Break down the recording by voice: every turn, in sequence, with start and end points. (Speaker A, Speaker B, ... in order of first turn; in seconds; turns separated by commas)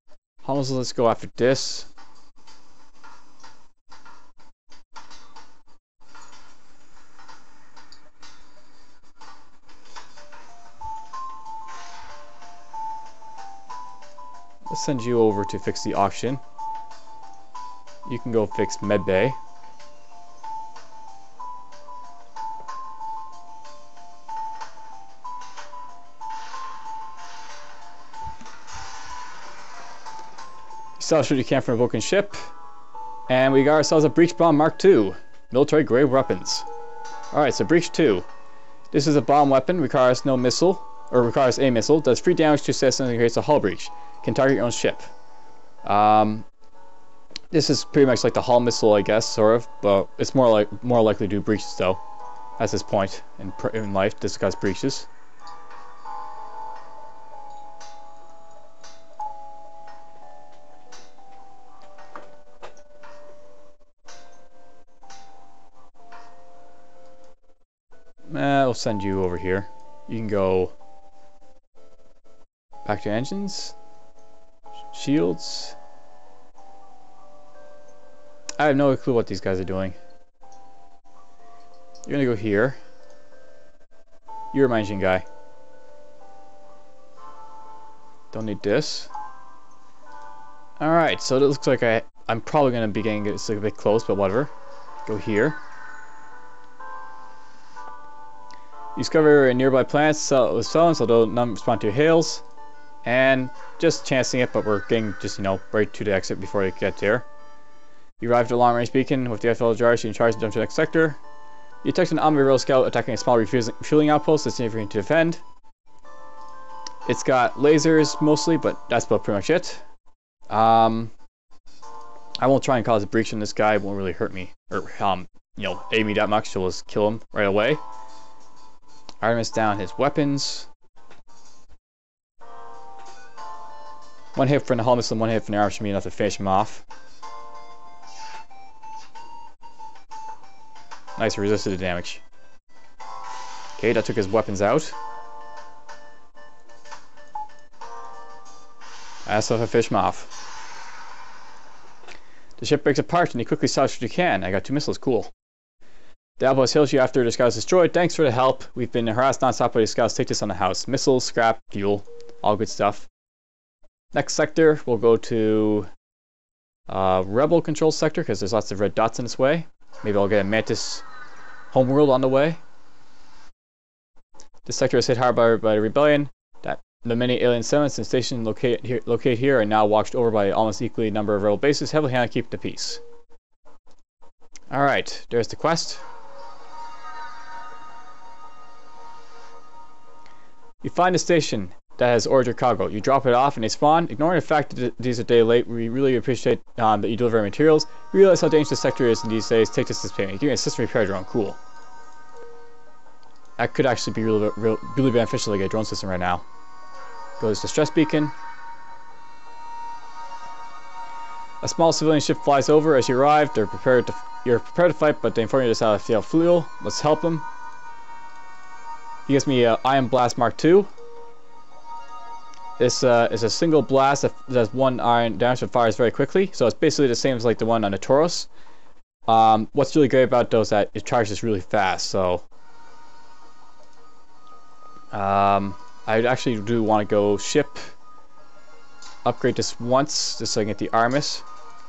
Speaker A: 0.4-1.9, Speaker A: 14.7-16.4, Speaker A: 18.1-19.4, Speaker A: 31.0-32.4, Speaker A: 33.3-36.7, Speaker A: 37.3-38.3, Speaker A: 38.9-45.1, Speaker A: 45.8-46.5, Speaker A: 47.5-52.0, Speaker A: 52.6-55.1, Speaker A: 68.3-70.7, Speaker A: 72.8-73.8, Speaker A: 74.9-75.8, Speaker A: 78.6-80.0, Speaker A: 82.1-82.8, Speaker A: 84.5-85.3, Speaker A: 88.3-89.1, Speaker A: 90.8-94.5, Speaker A: 95.0-95.6, Speaker A: 99.0-102.4, Speaker A: 103.0-107.3, Speaker A: 108.2-111.2, Speaker A: 111.8-115.4, Speaker A: 117.1-119.8, Speaker A: 120.5-121.1, Speaker A: 122.4-127.8, Speaker A: 129.2-130.7, Speaker A: 134.3-136.8, Speaker A: 141.2-142.2, Speaker A: 143.8-144.9, Speaker A: 149.3-150.3, Speaker A: 152.6-155.3, Speaker A: 156.4-163.1, Speaker A: 164.1-165.9, Speaker A: 166.9-171.0, Speaker A: 171.7-172.6, Speaker A: 174.7-183.0, Speaker A: 184.7-186.0, Speaker A: 190.8-201.6, Speaker A: 203.6-206.4, Speaker A: 207.4-208.3, Speaker A: 211.6-217.5, Speaker A: 219.3-220.9, Speaker A: 222.8-228.5, Speaker A: 229.3-232.4, Speaker A: 235.1-237.8, Speaker A: 239.2-241.4